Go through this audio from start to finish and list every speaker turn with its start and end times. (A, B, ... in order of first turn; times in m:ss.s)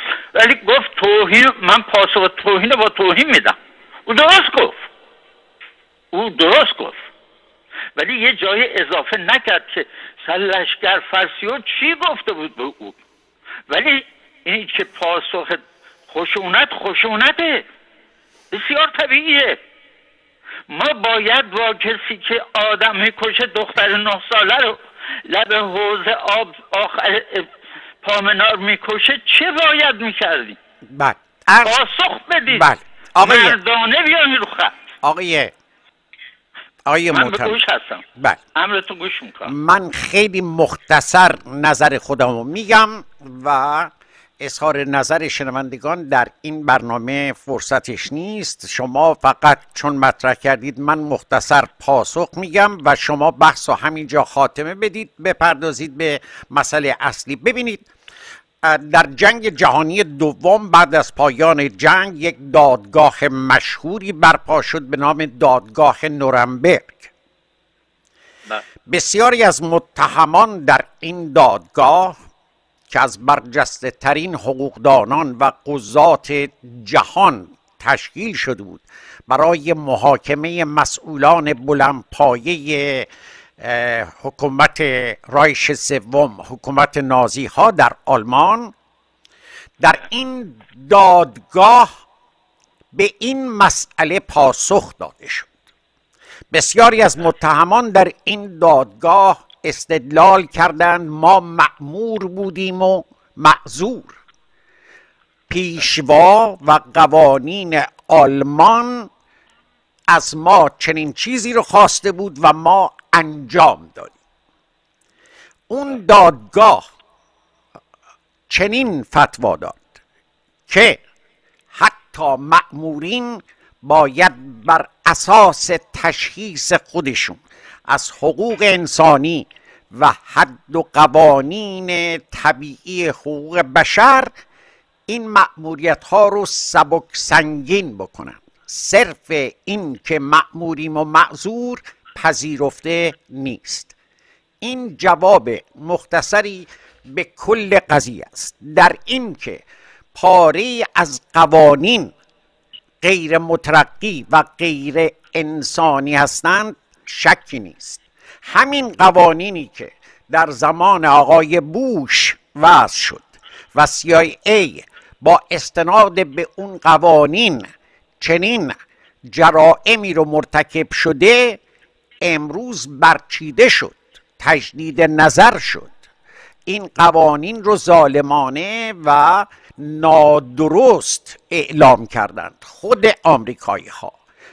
0:00.3-0:04.8 A
0:06.1-0:07.0 A
0:08.0-0:13.0 A
0:13.7-0:17.6 A
0:18.5-0:19.6 A
0:20.7-0:27.5 A
0:28.0-0:30.6 A
0:30.9-0:31.8 B
0:31.6-0:32.7 A
0:32.5-0:33.6 B
0:33.2-0:34.7 A
0:35.0-0:35.5 B
0:36.8-0:37.6 B
0:37.1-0:38.0 A
0:38.5-0:39.5 A
0:39.4-0:57.9 B
0:58.6-1:07.1 B
1:08.9-1:12.1 B
1:12.9-1:28.7 B
1:29.8-1:31.9 B
1:32.9-1:35.5 B
1:36.5-1:44.2 B
1:45.5-1:49.1 B
1:50.1-1:54.1 B
1:55.7-1:56.8 B
1:58.5-1:59.9 B
2:00.7-2:01.0 B
2:01.7-2:14.3 B
2:15.1-2:23.9 B
2:24.6-2:32.1 B
2:33.0-2:47.6 B
2:48.2-2:48.7 B
2:49.2-2:51.6 B
2:52.2-2:55.9 B
2:56.6-3:04.2 B